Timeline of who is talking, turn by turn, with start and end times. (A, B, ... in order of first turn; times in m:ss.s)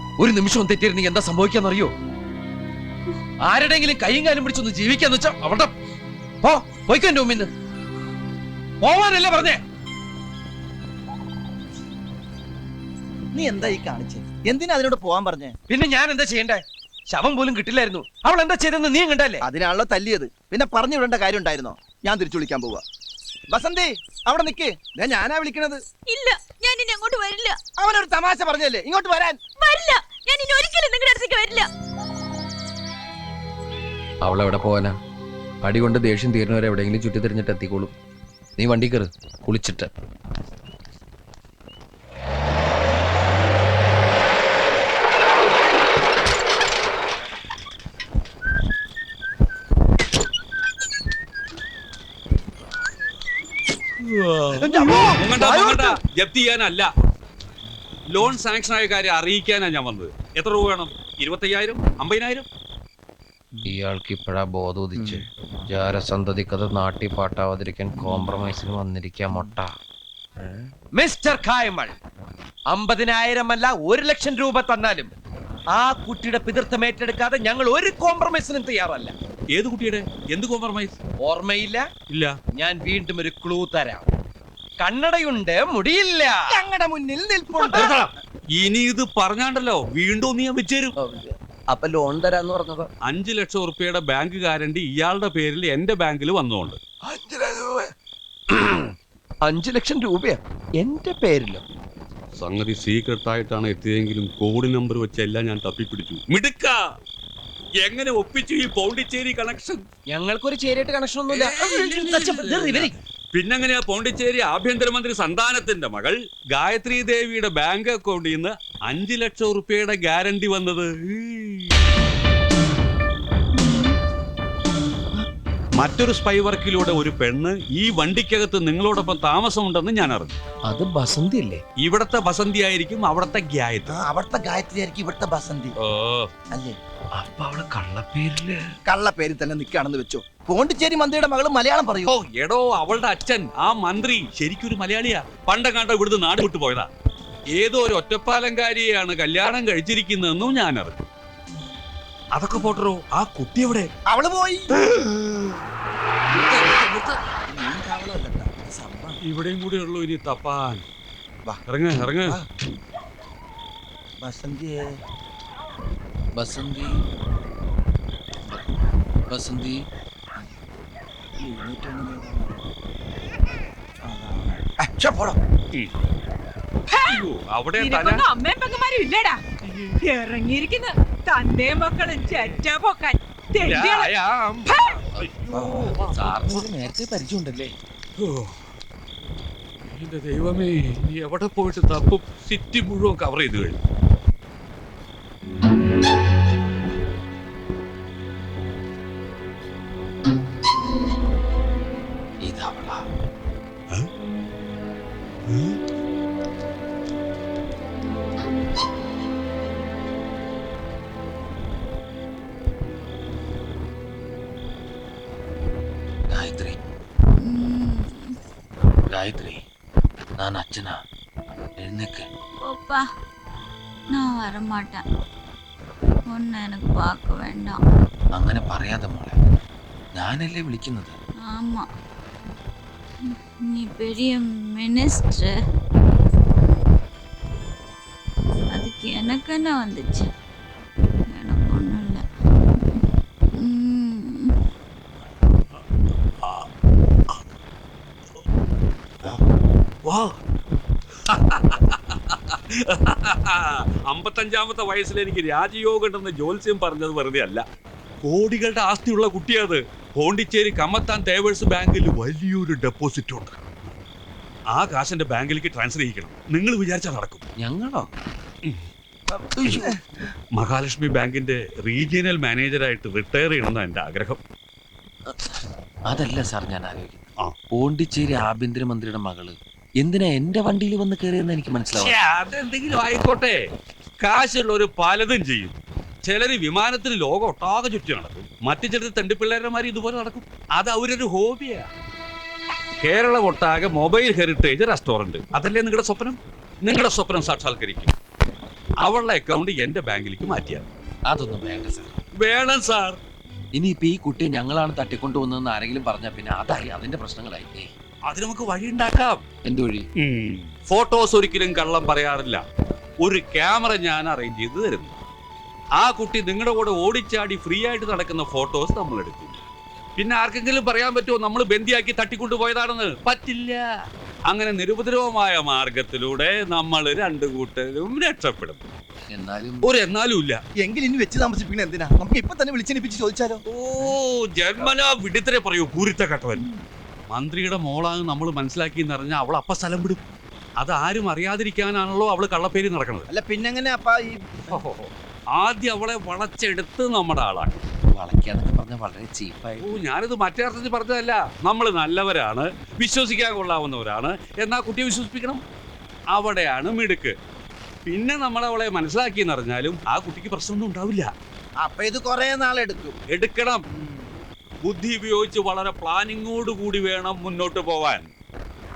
0:00.2-0:01.9 A
0:03.4-0:05.7 A
0:06.4-0:07.5 A
0:08.8-0:09.6 A
0:13.3-0:15.5 B
0:15.7-0:19.4 A
0:19.4-0:22.8 B
0:23.5-0:25.8 B
0:26.1-0:27.6 C
0:27.8-0:29.4 B
0:29.6-0:31.7 C
0:34.2-0:35.0 A
0:35.6-0:37.9 A
0:38.6-0:39.9 A
0:54.6-0:55.6 B
0:55.2-0:56.9 D
0:58.1-1:02.5 D
1:03.6-1:09.7 A
1:10.9-1:12.0 A
1:12.7-1:15.1 A
1:15.7-1:19.1 A
1:19.5-1:21.0 D
1:21.2-1:21.9 A
1:22.1-1:22.4 D
1:22.5-1:24.0 A
1:24.8-1:26.6 A
1:26.5-1:28.1 B
1:27.6-1:30.9 D
1:31.0-1:32.9 A
1:33.0-1:36.8 D
1:37.0-1:37.9 A
1:38.5-1:38.8 A
1:39.4-1:41.6 A
1:42.4-1:46.8 D
1:47.8-1:49.8 D
1:50.1-1:52.9 A
1:51.3-2:01.8 D
2:03.6-2:03.9 C
2:05.8-2:10.4 D
2:10.7-2:11.6 A
2:11.8-2:14.0 D
2:13.9-2:15.7 B
2:15.8-2:16.3 D
2:17.1-2:18.6 A
2:18.8-2:22.1 B
2:22.0-2:26.9 D
2:27.6-2:31.0 D
2:32.4-2:33.9 D
2:34.1-2:34.8 B
2:34.9-2:35.2 D
2:36.3-2:37.2 D
2:37.5-2:39.2 B
2:39.2-2:40.8 D
2:41.7-2:42.4 D
2:42.1-2:42.4 B
2:44.2-2:44.9 B
2:46.4-2:47.0 A
2:49.3-2:49.8 A
2:51.4-2:52.6 B
2:54.0-2:55.4 B
2:56.9-2:57.2 E
2:57.0-2:58.3 D
2:57.8-2:59.4 E
3:00.0-3:04.1 E
3:03.6-3:06.6 D
3:04.7-3:05.0 E
3:05.1-3:07.7 A
3:08.2-3:08.6 D
3:09.9-3:13.8 D
3:22.4-3:23.0 A
3:25.5-3:25.8 D
3:36.3-3:36.8 A
3:37.4-3:38.4 C
3:39.1-3:39.6 A
3:40.4-3:41.0 A
3:41.8-3:42.3 A
3:42.6-3:43.0 C
3:44.1-3:45.0 C
3:46.3-3:47.8 C
3:48.4-3:49.4 A
3:50.2-3:51.1 A
3:51.5-3:51.9 C
3:53.3-3:55.5 C
3:58.7-4:00.3 C
4:01.3-4:02.2 C
4:03.6-4:04.5 C
4:06.4-4:06.7 D
4:10.1-4:10.4 D
4:11.3-4:17.6 D
4:18.2-4:23.6 D
4:24.7-4:27.4 D
4:27.6-4:28.1 A
4:29.6-4:29.9 B
4:30.5-4:34.4 D
4:36.1-4:37.2 A
4:37.7-4:42.1 A
4:41.9-4:43.6 D
4:44.2-4:51.9 D
4:53.0-4:58.1 D
4:59.0-5:00.9 D
5:01.3-5:02.1 A
5:02.4-5:03.2 D
5:03.7-5:07.9 A
5:08.3-5:09.4 D
5:09.6-5:10.0 A
5:10.2-5:12.6 D
5:13.2-5:15.1 D
5:16.0-5:19.6 D
5:20.2-5:23.8 D
5:24.5-5:28.8 D
5:29.3-5:29.8 A
5:29.8-5:30.6 D
5:30.8-5:33.6 B
5:33.7-5:36.6 D
5:37.3-5:40.2 D
5:40.8-5:43.3 D
5:43.3-5:44.8 B
5:44.7-5:47.8 D
5:48.1-5:50.0 A
5:49.8-5:55.6 D
5:56.3-5:57.4 D
5:58.1-6:01.3 D
6:01.8-6:03.2 B
6:03.3-6:03.8 D
6:04.8-6:08.3 D